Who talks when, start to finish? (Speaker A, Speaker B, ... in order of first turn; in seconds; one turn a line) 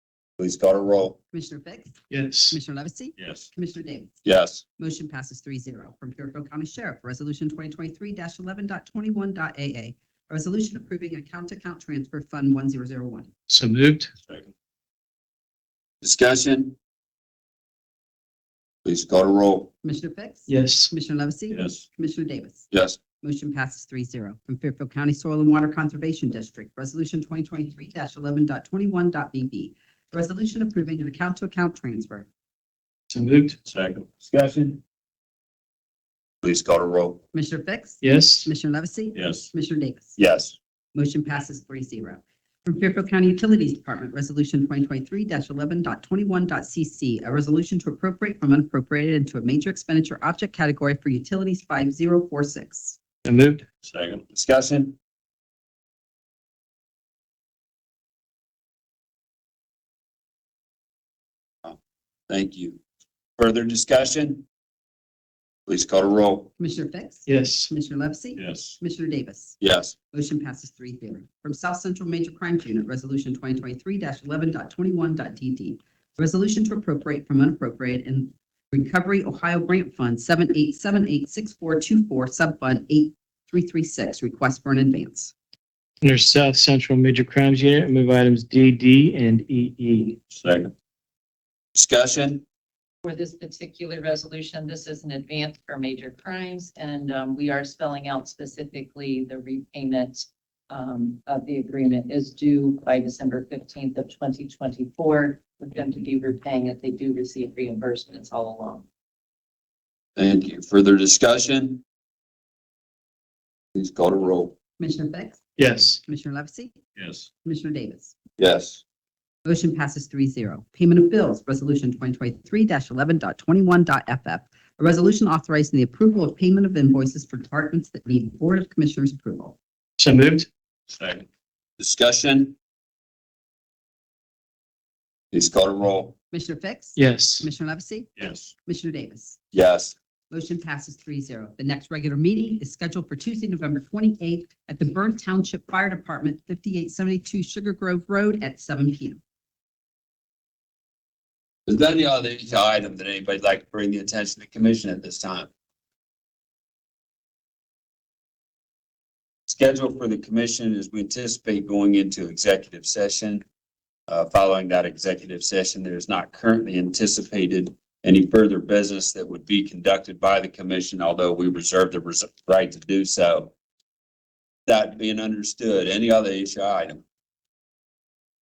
Speaker A: 0.4-1.2
Speaker B: 1.3-2.0
Speaker C: 2.1-2.6
Speaker B: 2.5-4.1
Speaker A: 3.2-3.5
Speaker A: 4.2-4.6
Speaker B: 4.8-13.3
Speaker C: 13.5-14.1
Speaker A: 14.2-14.5
Speaker A: 16.0-16.7
Speaker A: 18.8-19.7
Speaker B: 19.8-22.7
Speaker C: 20.5-20.9
Speaker A: 21.5-21.8
Speaker A: 22.7-23.0
Speaker B: 23.2-32.2
Speaker C: 33.1-33.6
Speaker A: 33.6-34.8
Speaker A: 36.4-37.2
Speaker B: 37.3-40.2
Speaker C: 38.0-38.5
Speaker A: 39.1-39.5
Speaker A: 40.2-40.5
Speaker B: 40.9-53.0
Speaker C: 53.2-53.6
Speaker A: 53.8-55.0
Speaker A: 62.3-62.8
Speaker A: 63.4-64.4
Speaker A: 65.7-66.5
Speaker B: 66.6-69.6
Speaker C: 67.2-67.7
Speaker A: 68.3-68.8
Speaker A: 69.6-69.9
Speaker B: 70.1-85.3
Speaker C: 86.0-90.2
Speaker A: 90.3-90.7
Speaker A: 91.7-92.4
Speaker D: 93.0-108.8
Speaker A: 110.2-111.8
Speaker A: 113.7-114.5
Speaker B: 114.8-115.4
Speaker C: 115.6-116.0
Speaker B: 116.0-116.8
Speaker A: 117.0-117.3
Speaker B: 117.4-118.1
Speaker A: 118.4-118.8
Speaker B: 119.4-129.6
Speaker C: 130.0-130.5
Speaker A: 130.9-131.2
Speaker A: 131.8-132.5
Speaker A: 135.3-136.1
Speaker B: 136.3-139.4
Speaker C: 136.9-137.5
Speaker A: 138.2-138.5
Speaker A: 139.5-139.9
Speaker B: 140.3-149.2
Speaker A: 151.7-155.5
Speaker A: 159.5-163.4
Speaker A: 164.1-173.5
Speaker A: 174.7-177.0